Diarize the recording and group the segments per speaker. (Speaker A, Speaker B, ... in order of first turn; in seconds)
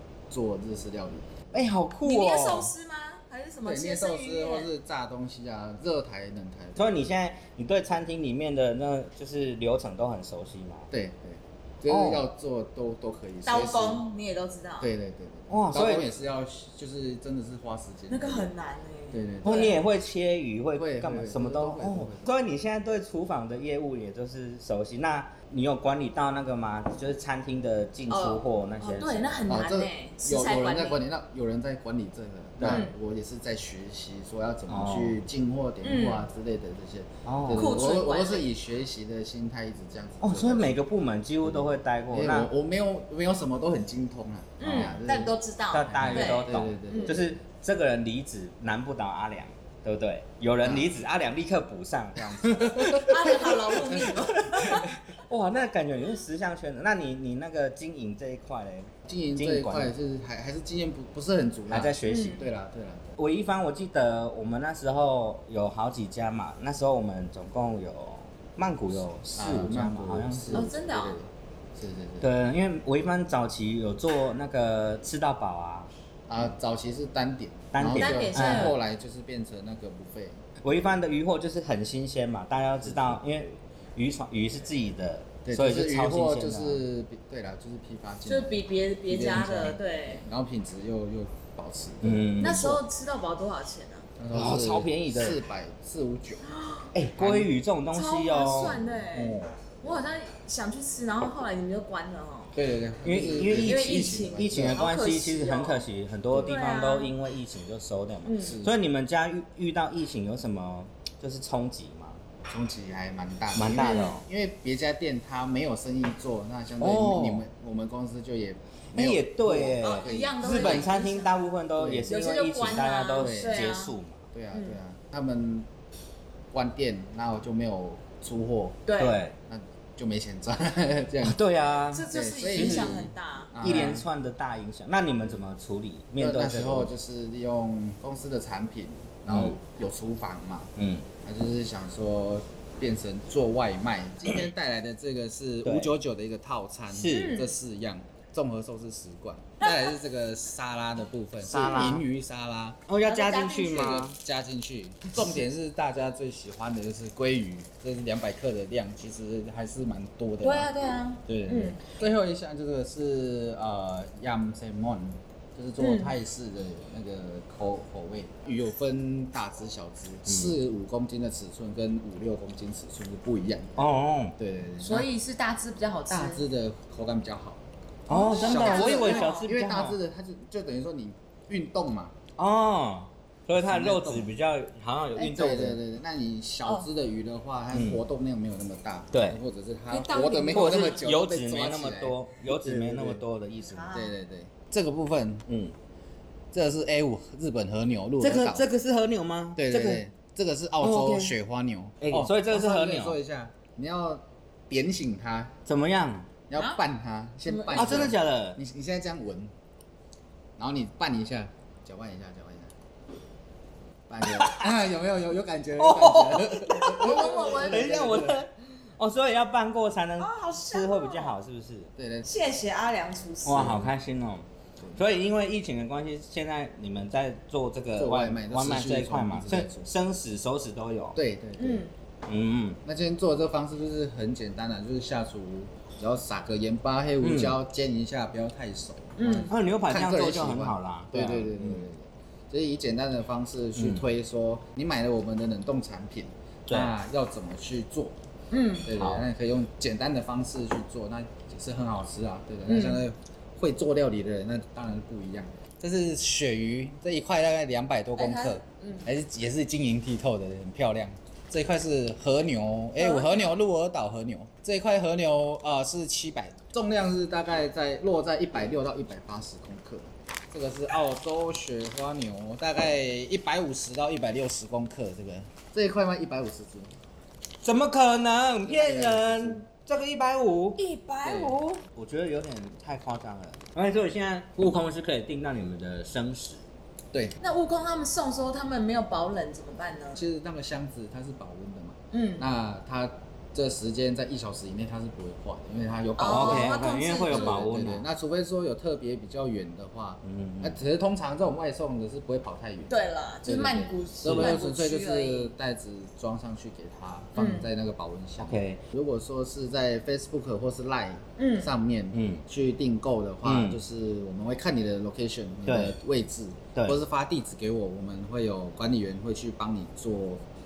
Speaker A: 0.3-1.4, 3.6-6.9, 10.9-14.1, 14.8-18.5, 19.1-19.8, 20.7-22.4, 29.5-40.8, 41.4-45.3, 45.9-47.4, 50.6-50.9, 52.2-54.1, 59.0-63.2, 69.3-72.3, 76.3-80.4, 82.8-83.2, 85.4-92.8, 94.2-96.5, 97.2-97.5, 98.5-100.0, 102.5-104.8, 106.3-106.5, 108.4-108.7, 112.5-120.9, 121.8-122.1, 123.2-123.7, 124.3-125.7, 126.5-128.8, 129.5-131.4, 132.1-134.1, 136.2-140.7, 141.2-152.8, 153.7-160.7, 161.3-175.1, 176.1-177.6, 178.3-182.1, 183.5-184.3, 185.1-193.2, 193.9-195.5, 196.5-198.7, 199.5-205.5, 206.5-209.5, 210.6-212.7, 214.1-218.4, 221.9-222.3, 223.5-223.9, 227.9-229.9, 231.1-231.8, 232.8-248.2, 248.8-276.9, 278.6-279.6, 281.2-281.6, 290.1-320.4
Speaker B: 1.5-2.7, 6.8-10.9, 11.9-12.3, 15.5-16.1, 19.4-29.4, 34.7-35.2, 37.2-37.8, 40.2-42.5, 44.7-45.0, 45.7-53.0, 54.6-59.9, 61.7-62.4, 63.2-70.7, 72.2-75.9, 77.7-78.8, 80.6-86.8, 92.0-92.7, 94.3-95.4, 96.9-98.8, 103.0-112.2, 113.5-114.2, 116.8-117.4, 118.9-124.2, 129.0-129.3, 131.2-136.9, 139.3-139.6, 140.8-141.1, 145.6-145.9, 146.9-147.4, 151.4-152.0, 152.9-154.2, 170.2-170.6, 173.8-174.3, 178.1-180.0, 182.4-185.8, 187.7-188.0, 189.1-189.4, 190.5-193.9, 195.5-195.7, 198.2-200.0, 200.8-201.3, 202.0-203.2, 205.7-206.3, 207.7-208.6, 215.8-221.9, 223.4-231.2, 232.2-232.8, 237.2-237.6, 239.5-241.9, 243.8-244.0, 246.7-246.9, 249.0-249.2, 277.6-280.8, 281.8-286.6, 296.2-298.1, 300.2-300.8, 304.2-304.6, 308.4-308.8, 312.1-312.4, 313.4-313.8, 315.6-315.9, 316.7-317.0
Speaker C: 2.0-4.7, 13.4-14.9, 18.1-19.8, 28.1-31.0, 32.6-32.9, 35.8-36.3, 37.5-38.5, 44.6-47.2, 52.9-54.9, 62.0-62.4, 70.5-71.2, 78.0-78.7, 88.2-90.2, 92.4-94.1, 96.4-96.9, 97.9-102.5, 103.5-105.9, 106.5-107.2, 108.2-108.6, 113.8-114.2, 119.8-121.3, 122.1-123.9, 124.5-124.8, 128.8-129.2, 131.9-133.9, 147.1-147.5, 153.0-154.0, 160.4-161.8, 165.8-166.2, 174.8-176.4, 178.1-179.5, 189.9-191.1, 193.6-194.1, 206.5-206.8, 207.4-208.1, 216.8-218.3, 220.2-221.3, 222.2-223.8, 231.6-231.9, 239.2-239.5, 248.5-248.9, 252.7-253.0, 258.1-259.1, 263.0-263.5, 280.8-281.8, 287.4-290.2, 292.1-292.4, 296.1-297.6, 302.9-305.5, 307.4-307.7, 311.4-311.7